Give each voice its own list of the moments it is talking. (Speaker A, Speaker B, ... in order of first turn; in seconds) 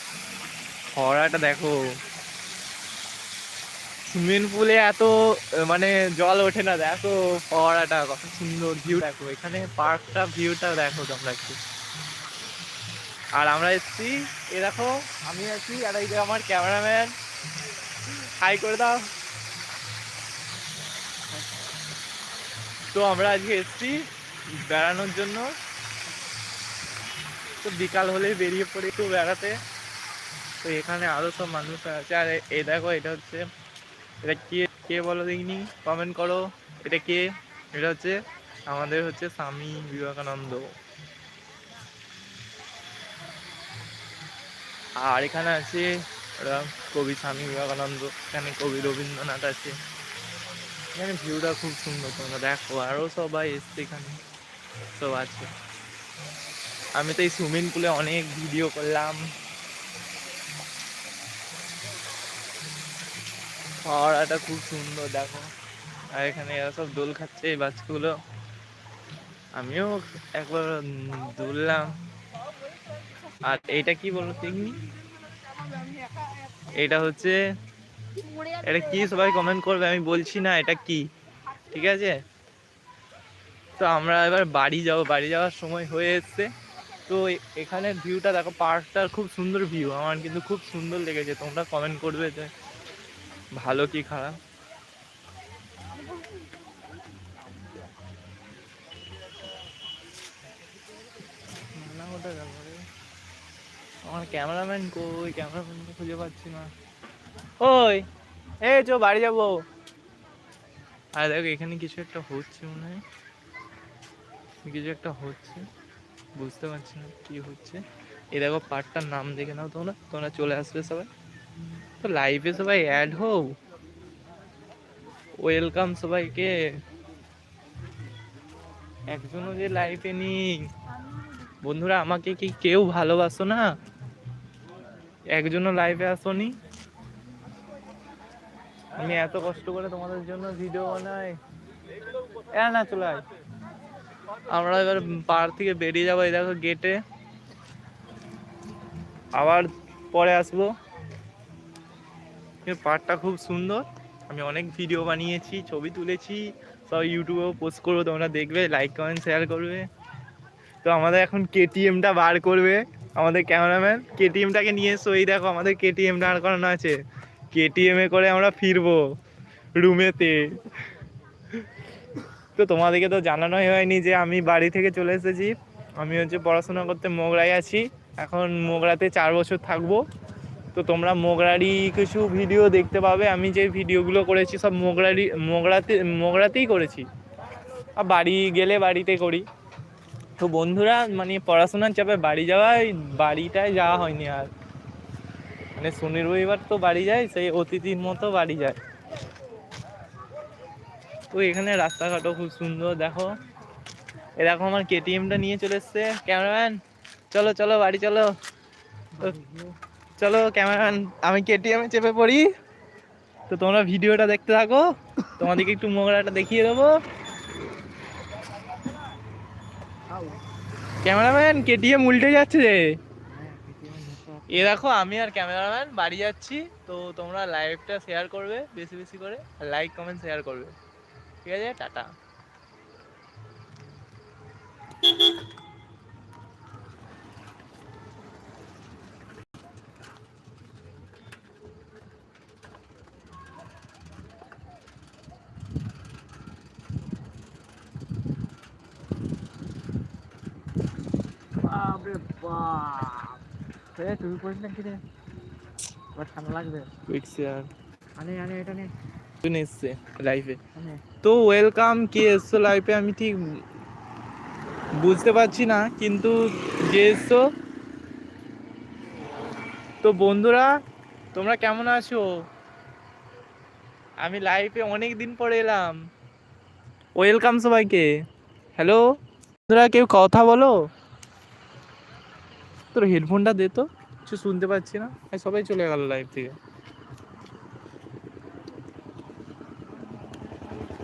Speaker A: 0.9-1.8, 4.1-11.6, 13.3-17.1, 18.1-19.1, 22.9-24.0, 24.6-25.5, 27.6-29.6, 30.6-33.4, 34.2-40.7, 45.0-49.8, 51.0-54.2, 54.9-55.5, 57.0-59.2, 63.9-65.5, 66.2-68.2, 69.6-72.0, 73.4-74.8, 76.7-77.4, 78.5-81.1, 81.7-82.2, 83.8-86.5, 87.1-92.5, 93.6-94.4, 101.8-102.8, 104.1-106.7, 107.6-108.1, 108.6-109.6, 111.2-113.0, 114.6-115.6, 116.4-117.8, 118.3-121.1, 122.0-123.5, 125.4-126.6, 129.1-130.6, 131.6-133.7, 135.3-136.6, 139.0-141.4, 142.5-143.2, 144.5-147.0, 149.4-150.7, 152.6-159.9, 160.8-167.0, 167.5-169.1, 169.8-170.6, 172.6-180.0, 180.7-187.1, 188.0-189.4, 190.4-194.5, 195.8-198.8, 201.3-203.3, 204.4-206.8, 207.3-208.3, 210.2-212.5, 213.5-217.0, 221.0-222.9, 224.5-230.8, 231.4-232.1, 257.1-257.7, 259.4-260.6, 261.2-263.4, 265.0-267.4, 270.0-270.7, 271.4-272.3, 274.2-276.0, 277.2-278.1, 278.8-279.1, 279.7-280.8, 282.9-286.6
Speaker B: 209.1-209.8, 220.1-220.4, 223.3-224.8, 251.6-253.4, 254.0-255.0, 256.1-256.9, 258.2-258.9, 260.8-261.0